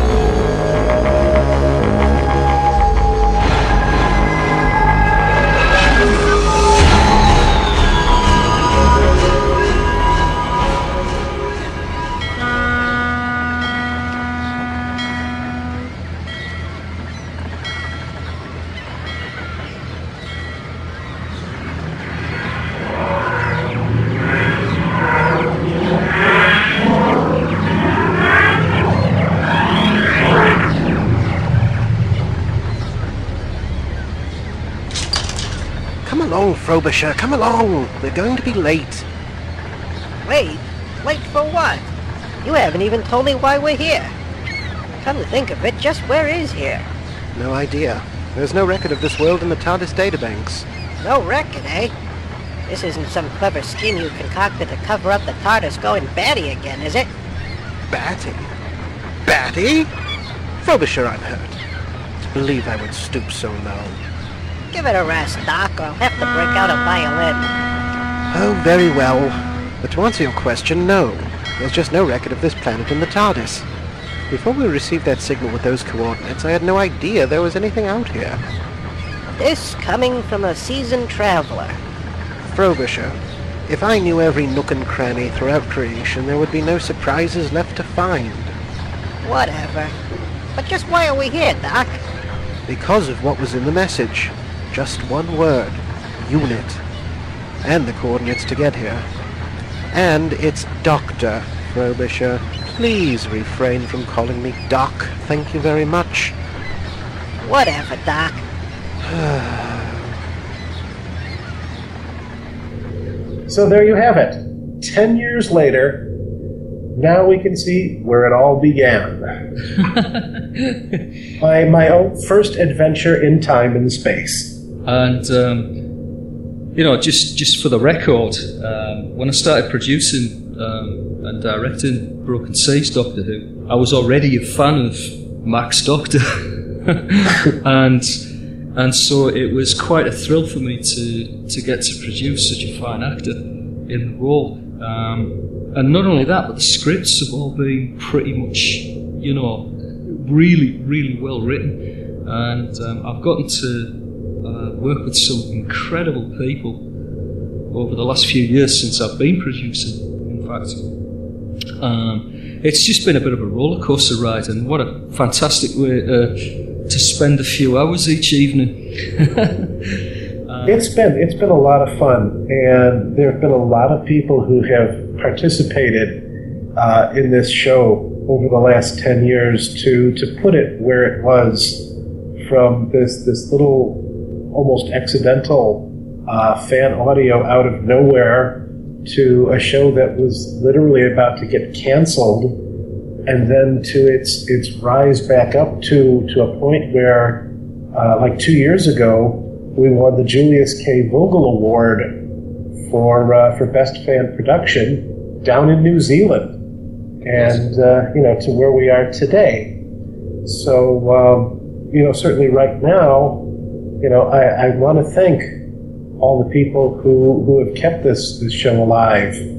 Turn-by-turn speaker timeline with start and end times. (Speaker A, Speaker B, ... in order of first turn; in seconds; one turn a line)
Speaker A: 36.0-39.0
Speaker B: 40.2-41.9
Speaker B: 42.4-44.1
Speaker B: 45.0-46.9
Speaker A: 47.3-50.6
Speaker B: 51.0-51.9
Speaker B: 52.7-57.1
Speaker A: 57.9-58.5
Speaker A: 59.2-59.9
Speaker A: 60.6-61.6
Speaker A: 62.3-64.0
Speaker B: 64.7-67.5
Speaker A: 68.3-73.7
Speaker A: 74.3-78.4
Speaker B: 79.3-81.8
Speaker A: 82.5-83.2
Speaker A: 83.7-88.5
Speaker B: 89.2-90.0
Speaker B: 90.5-92.0
Speaker A: 92.7-96.8
Speaker A: 97.6-99.0
Speaker A: 99.9-106.3
Speaker B: 107.4-108.4
Speaker A: 109.0-110.0
Speaker C: 113.5-116.0
Speaker C: 116.9-119.3
Speaker D: 119.8-121.0
Speaker C: 121.4-124.5
Speaker D: 124.8-125.7
Speaker D: 126.7-138.2
Speaker D: 138.7-153.9
Speaker D: 154.4-156.8
Speaker D: 157.7-160.8
Speaker D: 161.8-170.8
Speaker C: 170.6-176.2
Speaker C: 176.7-181.8
Speaker C: 182.4-192.5
Speaker C: 193.3-197.4
Speaker C: 197.9-202.1
Speaker C: 202.8-206.5
Speaker C: 207.2-209.7
Speaker C: 210.4-213.4
Speaker C: 214.0-215.5
Speaker C: 216.2-219.4